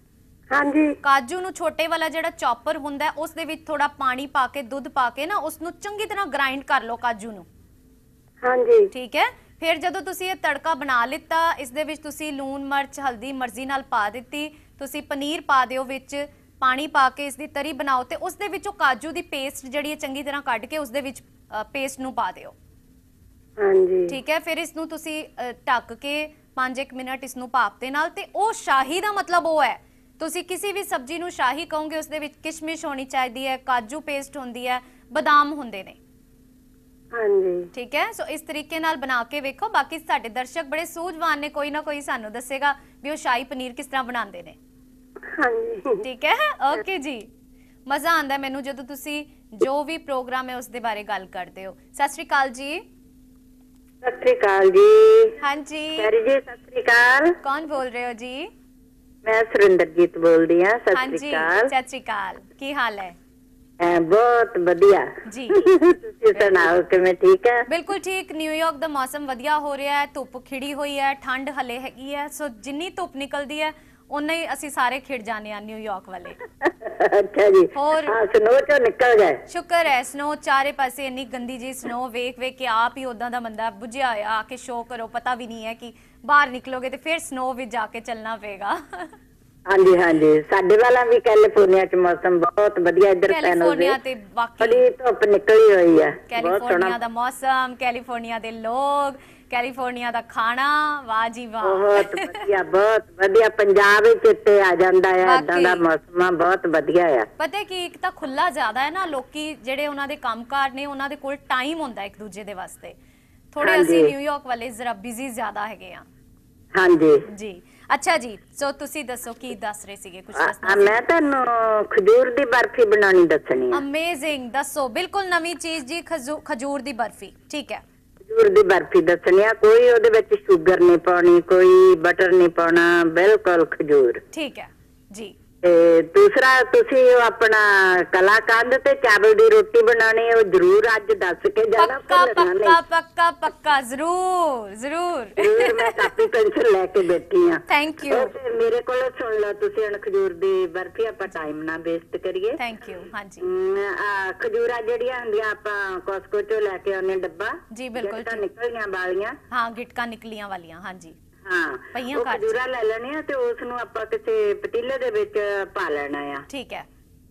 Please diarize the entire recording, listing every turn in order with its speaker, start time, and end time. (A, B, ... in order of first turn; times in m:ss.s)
0:00.5-0:01.0 A
0:01.0-0:07.5 B
0:08.4-0:08.9 A
0:08.9-0:22.6 B
0:23.6-0:24.2 A
0:24.1-0:36.0 B
0:37.2-0:37.7 A
0:37.7-0:44.6 B
0:45.3-0:46.0 A
0:46.0-0:47.3 B
0:47.9-0:52.8 B
0:54.0-0:55.3 C
0:55.4-0:56.1 B
0:56.0-0:57.3 C
0:57.4-0:58.5 B
0:59.2-1:01.7 C
1:00.9-1:03.2 B
1:03.8-1:07.6 C
1:05.3-1:05.6 B
1:06.4-1:06.7 B
1:07.7-1:16.4 B
1:16.6-1:19.4 C
1:17.8-1:18.2 B
1:19.5-1:29.1 B
1:29.7-1:34.0 C
1:33.3-1:34.8 B
1:34.6-1:37.0 C
1:36.3-1:42.3 B
1:41.6-1:47.3 C
1:45.2-1:45.8 B
1:47.4-1:53.0 B
1:53.5-1:56.1 B
1:53.6-1:54.1 C
1:56.8-1:57.2 C
1:57.3-2:01.0 B
2:00.4-2:03.8 C
2:03.7-2:07.8 B
2:08.3-2:14.2 C
2:14.3-2:15.4 B
2:15.6-2:22.8 C
2:21.8-2:26.0 B
2:25.4-2:32.6 C
2:27.7-2:28.3 B
2:32.6-2:33.4 B
2:33.4-2:39.4 C
2:37.7-2:38.4 B
2:39.5-2:41.2 B
2:41.4-2:46.4 C
2:41.9-2:42.6 B
2:46.5-2:46.9 B